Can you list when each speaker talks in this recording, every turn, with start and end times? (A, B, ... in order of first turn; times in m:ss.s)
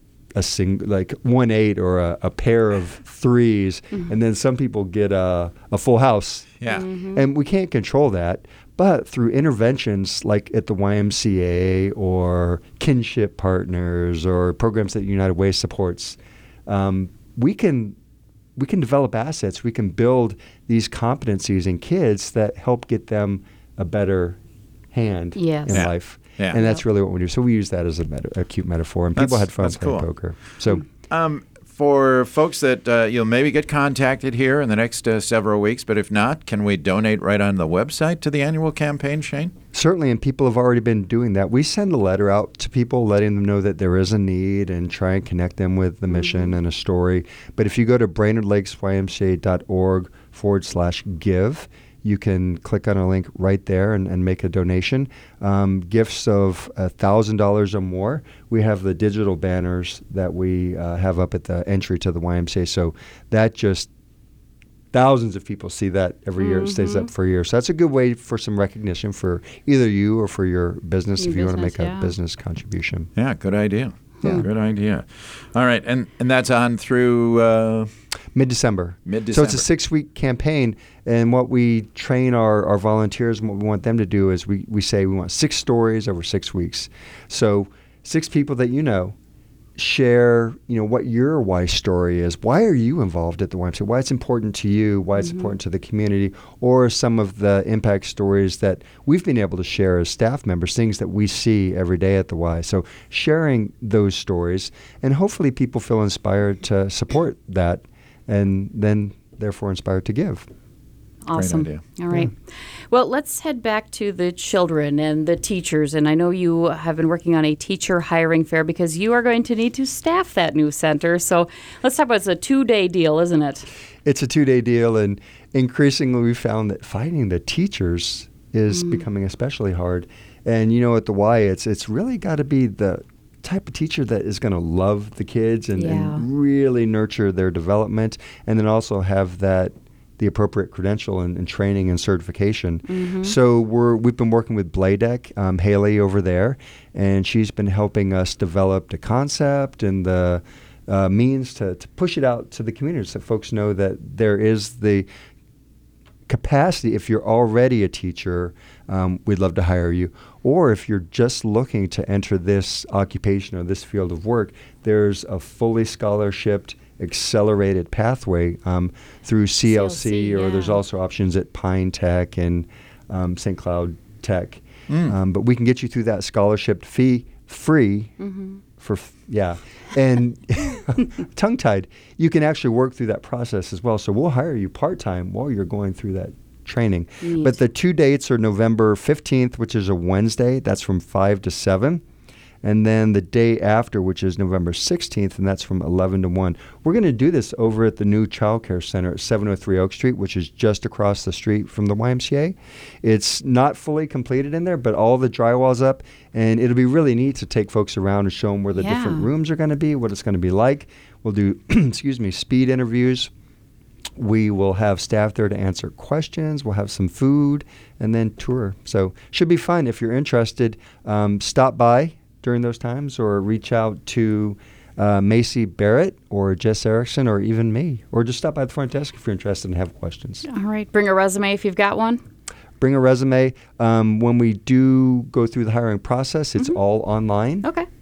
0:00.3-0:18.0 A
0:06.6-0:06.8 B
0:06.7-0:07.2 C
0:18.6-0:24.4 A
0:24.9-0:30.8 A
0:25.3-0:25.8 C
0:25.7-0:26.6 B
0:26.5-0:26.8 C
0:29.2-0:30.1 B
0:31.1-0:39.5 B
0:39.7-1:03.9 A
0:46.1-0:46.5 C
1:04.9-1:13.1 A
1:06.4-1:07.1 C
1:11.2-1:12.1 C
1:13.2-1:17.9 B
1:14.2-1:14.5 A
1:18.3-1:29.1 A
1:19.0-1:19.6 B
1:29.8-1:50.4 A
1:35.2-1:35.5 C
1:51.2-1:52.4 C
1:51.3-1:51.8 B
1:52.9-2:03.7 C
2:04.0-2:35.1 A
2:08.7-2:09.0 C
2:15.8-2:16.2 C
2:22.9-2:23.4 C
2:36.3-2:58.1 A
2:49.6-2:50.8 C
2:54.9-2:55.1 B
2:58.2-2:58.6 C
2:58.8-3:12.0 A
3:07.2-3:07.6 C
3:12.6-3:33.3 A
3:28.7-3:29.3 C
3:34.2-3:50.4 A
3:50.4-3:52.2 C
3:52.8-3:57.7 A